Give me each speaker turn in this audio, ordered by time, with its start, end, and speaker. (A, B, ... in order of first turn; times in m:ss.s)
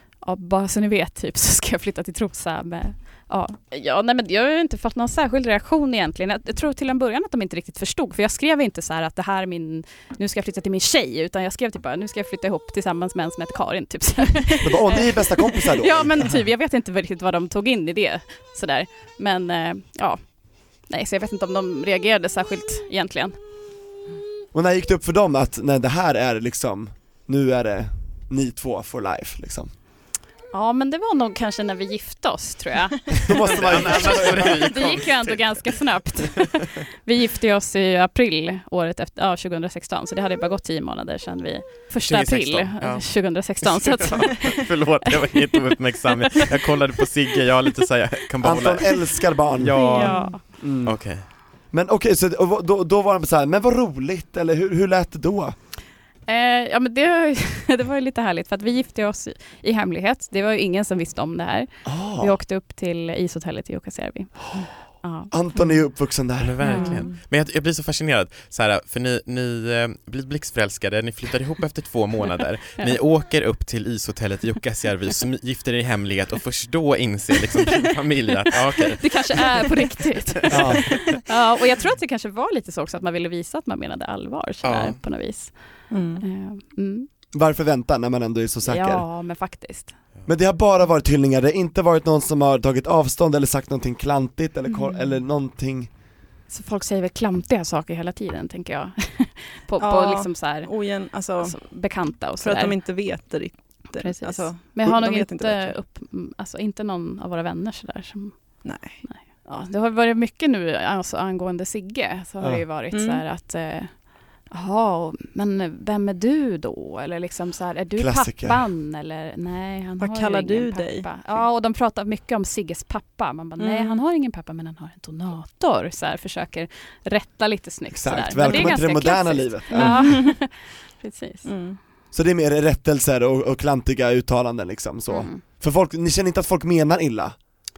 0:00.2-0:23.4 A
0:14.6-0:16.4 B
0:24.5-0:29.7 B
0:30.5-0:44.7 A
0:33.2-0:34.7 B
0:33.5-0:35.8 C
0:42.0-0:51.2 C
0:45.2-0:45.6 A
0:48.4-0:50.0 B
0:49.8-0:50.4 A
0:49.9-0:50.4 D
0:50.6-0:51.2 B
0:51.7-0:55.6 B
0:56.3-1:05.3 A
1:01.8-1:02.4 B
1:05.3-1:06.6 B
1:06.4-1:19.6 C
1:06.6-1:07.1 A
1:06.6-1:07.1 D
1:19.0-1:27.1 A
1:20.5-1:21.0 C
1:20.5-1:21.0 B
1:24.6-1:25.0 C
1:25.9-1:26.2 D
1:27.3-1:29.0 B
1:28.6-1:29.9 A
1:30.3-1:35.9 B
1:36.5-1:42.8 A
1:39.8-1:41.6 D
1:42.3-1:45.8 D
1:44.0-2:11.5 A
1:48.6-1:49.0 D
1:52.9-1:53.2 D
1:58.0-1:58.6 B
2:00.0-2:01.4 D
2:03.6-2:04.0 D
2:07.9-2:10.2 B
2:08.4-2:08.8 D
2:09.7-2:10.3 D
2:11.4-2:11.8 D
2:12.1-2:17.4 B
2:15.1-2:15.4 A